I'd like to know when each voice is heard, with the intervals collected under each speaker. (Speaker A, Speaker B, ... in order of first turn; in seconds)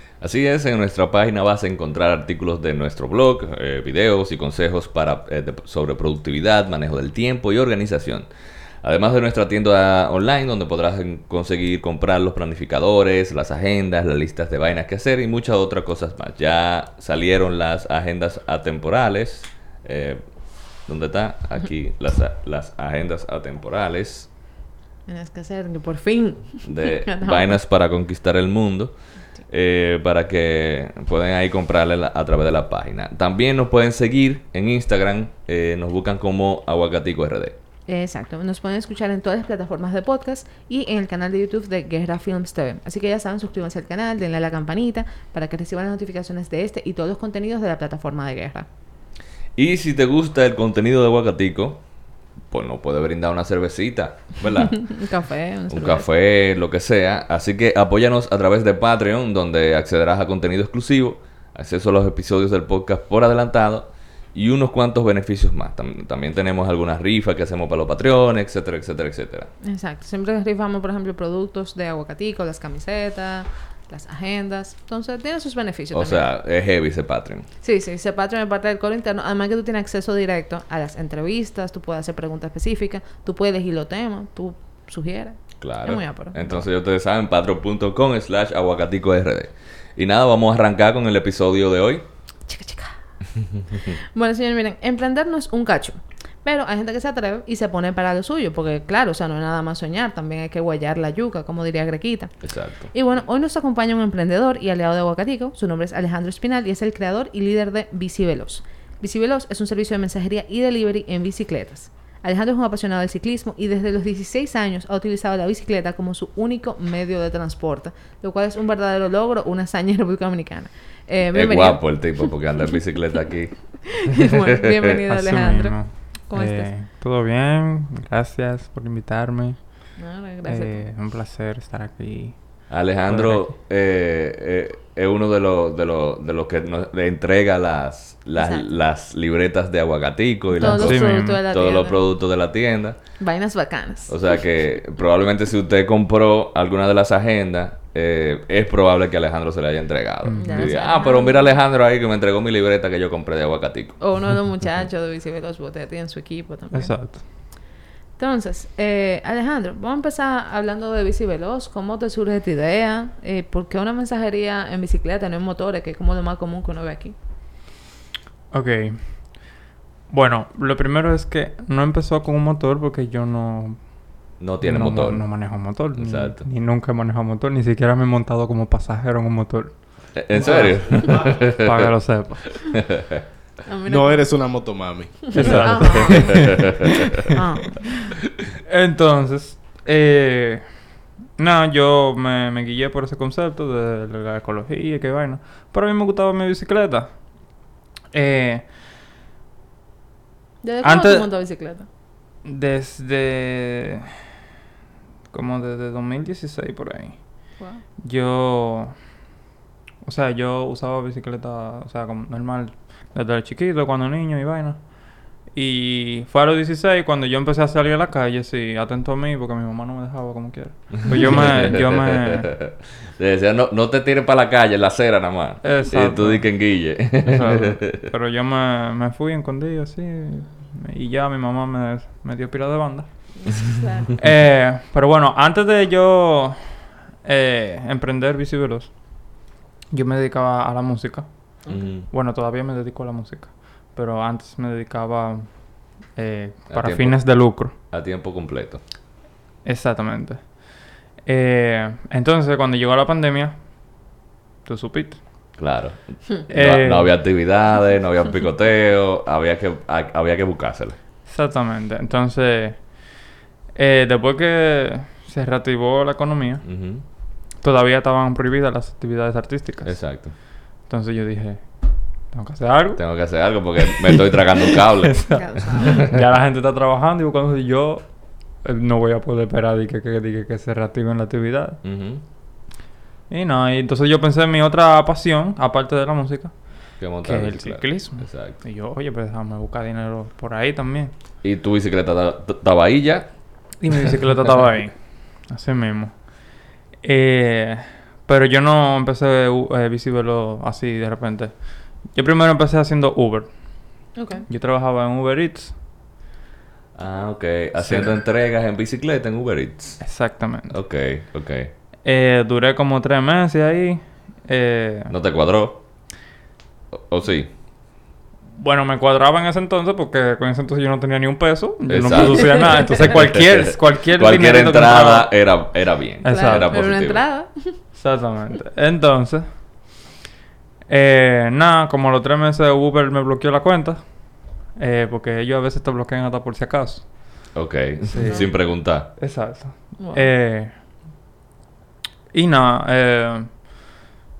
Speaker A: 0.2-8.2, 8.8-24.3, 26.6-37.5, 49.5-55.0, 55.7-69.5, 75.9-77.5, 85.6-92.0, 102.4-102.9, 121.3-124.3, 132.7-143.2, 144.1-154.0, 174.4-176.5, 180.1-181.8, 182.7-183.2, 186.1-186.7, 221.2-228.0, 241.7-242.1, 246.7-248.8, 255.6-261.0, 266.6-267.0, 269.8-270.3, 272.9-276.1, 281.8-282.2, 287.0-288.6, 291.4-293.8, 306.9-310.0, 310.7-311.7, 315.1-315.8, 316.9-317.5, 321.9-327.2, 337.5-339.1
Speaker B: 25.1-27.5, 37.9-48.6, 54.7-56.0, 69.6-76.3, 77.6-86.6, 92.5-93.0, 94.1-122.3, 123.8-126.7, 130.0-130.8, 138.3-138.8, 140.5-142.0, 143.2-144.4, 150.4-151.5, 154.0-157.6, 158.2-167.1, 183.7-184.3, 185.3-186.7, 187.3-188.0, 200.6-201.9, 207.6-207.8, 233.4-234.1, 241.6-241.9, 275.3-276.1, 304.1-304.4, 326.2-327.8, 338.2-338.5, 340.0-340.3
Speaker C: 125.1-133.5, 140.6-141.4, 150.2-150.8, 156.7-157.2, 168.5-182.8, 185.3-187.3, 188.6-198.7, 200.8-201.3, 202.4-204.2, 205.3-209.2, 210.0-222.5, 225.6-233.7, 234.2-247.7, 249.6-254.0, 254.6-255.6, 256.5-257.2, 261.2-263.2, 263.7-274.2, 274.8-281.8, 283.3-291.1, 293.8-305.8, 307.8-308.1, 310.0-310.8, 312.0-315.1, 318.6-325.5, 326.2-326.8, 327.9-329.9, 330.9-341.0, 342.3-343.5
Speaker D: 180.4-181.4, 183.9-186.0